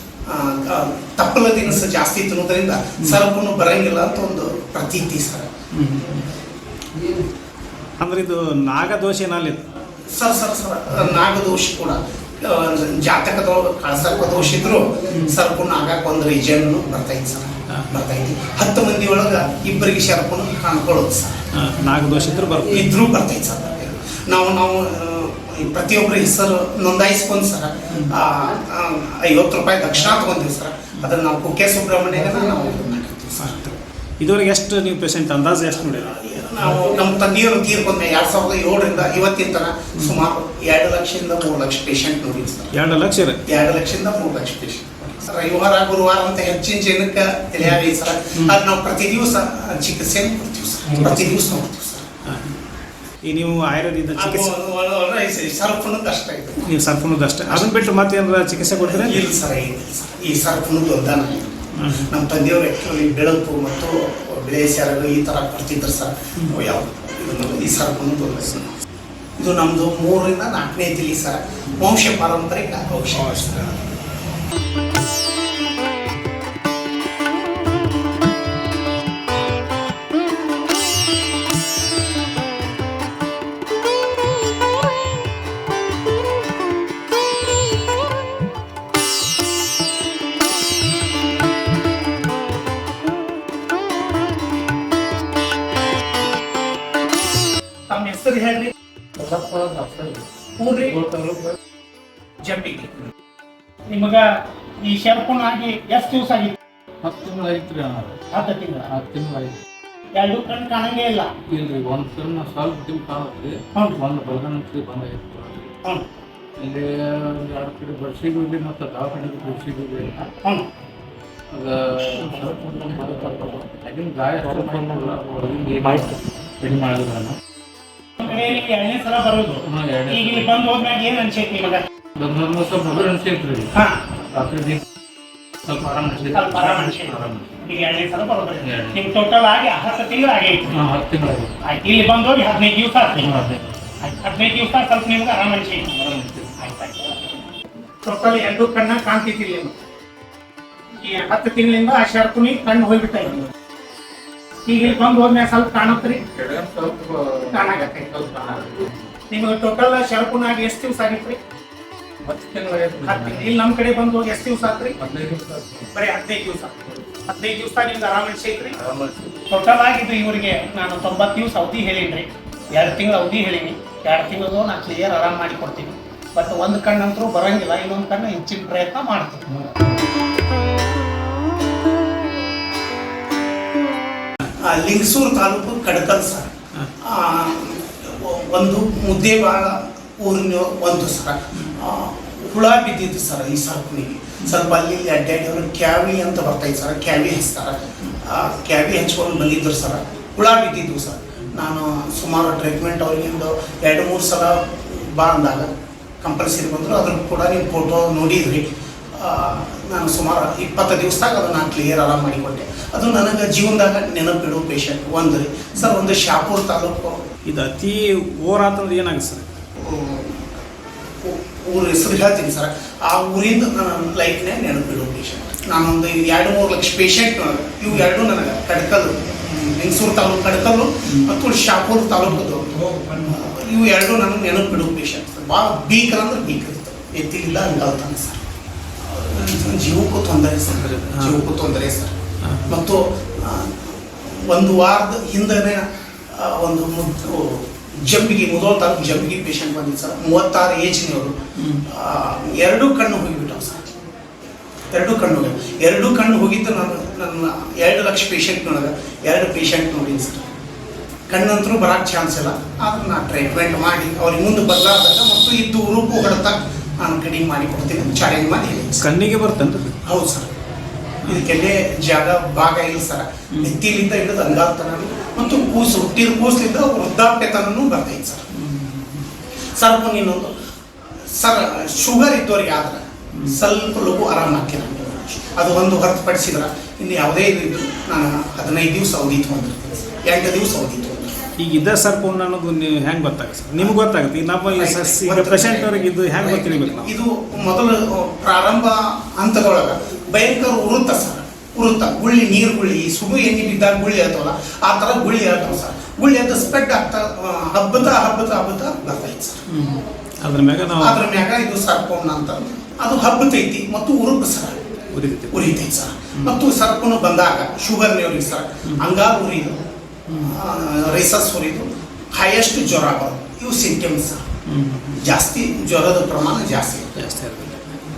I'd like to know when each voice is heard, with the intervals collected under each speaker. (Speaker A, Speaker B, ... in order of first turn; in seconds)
Speaker A: 0.3-5.5, 10.1-21.4, 22.7-33.6, 35.7-42.7, 43.5-52.1, 54.2-56.7, 57.5-57.8, 58.8-68.8, 69.4-73.7, 97.9-98.7, 100.6-101.0, 102.4-102.9, 103.9-104.3, 104.8-106.5, 108.3-108.9, 110.1-111.3, 113.7-114.0, 128.2-131.8, 133.7-134.0, 136.3-140.7, 141.6-143.3, 144.0-145.9, 146.6-147.2, 148.0-149.7, 151.0-153.4, 154.7-156.3, 157.5-158.6, 159.3-161.4, 163.0-165.0, 165.9-168.8, 169.5-179.5, 184.7-186.5, 187.1-205.7, 206.2-217.2, 219.8-220.5, 221.2-238.5, 239.0-242.2, 242.7-251.3, 251.9-253.9, 254.9-260.5, 261.3-269.1, 270.1-270.5, 271.3-278.5, 279.8-280.5, 281.3-291.4, 294.7-309.6, 311.0-314.8, 315.5-319.8, 320.4-324.4, 325.2-327.2
Speaker B: 5.8-6.3, 8.0-9.7, 21.6-22.9, 33.4-36.2, 42.7-43.4, 50.9-51.3, 52.2-52.6, 53.2-54.5, 56.7-59.3, 61.8-62.1, 73.2-73.8, 217.4-219.5, 231.1-231.4, 232.6-233.4, 240.8-241.4, 242.4-242.7, 251.6-251.8, 269.0-270.0, 278.5-279.3, 291.6-297.1, 309.7-311.2, 315.1-315.8, 324.7-325.4, 327.1-328.0
Speaker C: 99.2-100.2, 100.8-101.6, 107.0-108.3, 108.9-109.6, 111.5-115.7, 116.6-120.3, 121.5-127.4, 129.6-130.7, 132.1-134.8, 135.6-137.5, 138.6-139.0, 140.7-141.5, 143.2-143.6, 145.9-146.7, 156.3-159.0, 162.2-163.5, 165.0-165.9, 168.8-169.4, 179.5-179.9